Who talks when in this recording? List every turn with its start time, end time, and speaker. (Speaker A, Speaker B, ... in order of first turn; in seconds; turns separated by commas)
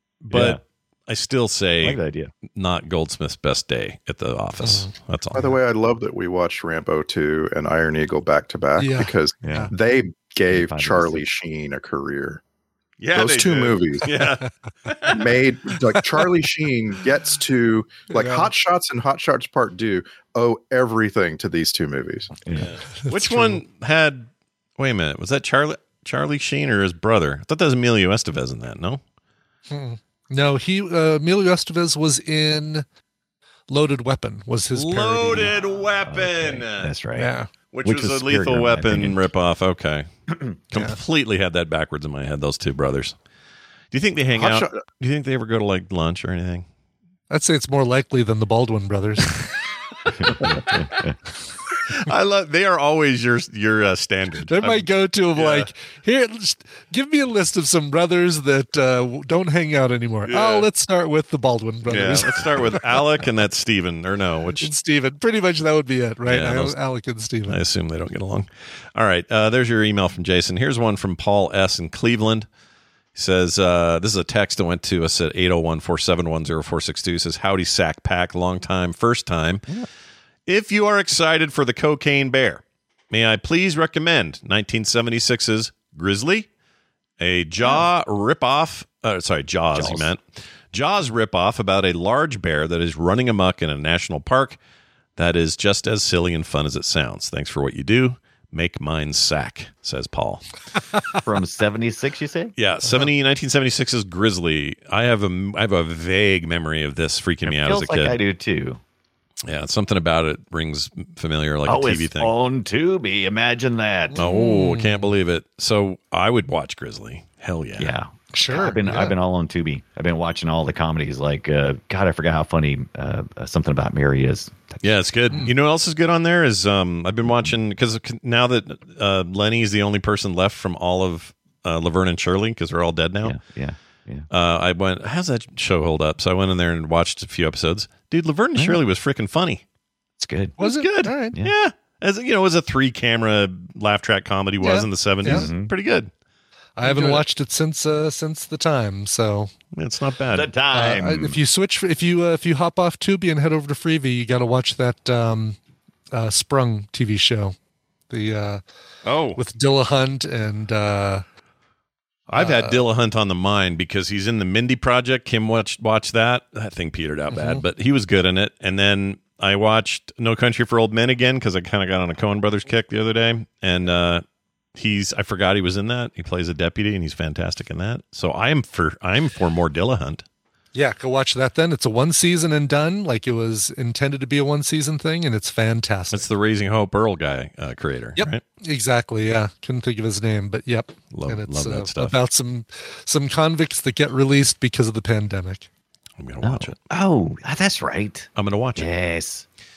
Speaker A: 0.2-2.0, Speaker B: 0.3-0.6, Speaker B: 1.8-2.3, Speaker A: 2.5-5.5, Speaker C: 4.6-4.9, Speaker D: 5.3-12.4, Speaker C: 8.8-9.7, Speaker B: 9.4-9.7, Speaker B: 10.5-11.2, Speaker A: 13.0-15.3, Speaker D: 13.1-14.1, Speaker D: 15.1-22.3, Speaker C: 18.1-18.5, Speaker B: 22.4-22.7, Speaker A: 22.5-29.0, Speaker C: 23.0-23.6, Speaker C: 29.7-32.8, Speaker C: 33.7-35.5, Speaker A: 34.7-36.9, Speaker B: 35.4-37.3, Speaker C: 37.1-37.5, Speaker A: 37.7-40.1, Speaker B: 37.8-39.2, Speaker A: 40.7-43.1, Speaker A: 43.9-46.6, Speaker D: 44.3-44.8, Speaker C: 47.3-49.3, Speaker B: 50.2-51.1, Speaker A: 51.9-55.7, Speaker C: 54.5-63.0, Speaker A: 60.2-60.7, Speaker A: 61.9-64.7, Speaker C: 64.6-67.6, Speaker A: 66.2-66.8, Speaker A: 67.5-72.5, Speaker A: 73.1-79.6, Speaker A: 80.5-86.5, Speaker A: 87.2-90.2, Speaker B: 89.7-90.1, Speaker A: 90.7-94.6, Speaker A: 95.2-100.5, Speaker B: 101.2-102.5, Speaker A: 102.6-108.2, Speaker B: 107.4-108.8, Speaker A: 109.5-112.3, Speaker B: 111.7-114.2, Speaker C: 114.1-115.1, Speaker A: 114.2-117.9, Speaker B: 117.8-124.8, Speaker C: 118.3-119.1, Speaker A: 124.8-133.4, Speaker B: 133.2-134.3, Speaker A: 134.3-139.6, Speaker B: 138.5-138.8, Speaker B: 140.2-140.6, Speaker A: 140.6-146.1, Speaker C: 140.6-141.3, Speaker C: 144.6-145.5, Speaker B: 145.2-145.7, Speaker C: 146.8-149.5, Speaker A: 149.7-150.5, Speaker B: 150.3-151.4, Speaker C: 150.7-155.6, Speaker C: 156.1-157.5, Speaker C: 158.1-158.6, Speaker A: 159.0-159.4, Speaker C: 159.4-161.2, Speaker A: 162.3-174.2, Speaker C: 162.3-162.8, Speaker C: 167.3-167.6, Speaker A: 174.8-180.2, Speaker C: 180.7-186.2, Speaker A: 186.1-188.4, Speaker C: 188.2-195.7, Speaker A: 191.1-192.2, Speaker A: 196.2-196.8, Speaker B: 196.4-199.4, Speaker A: 198.3-198.9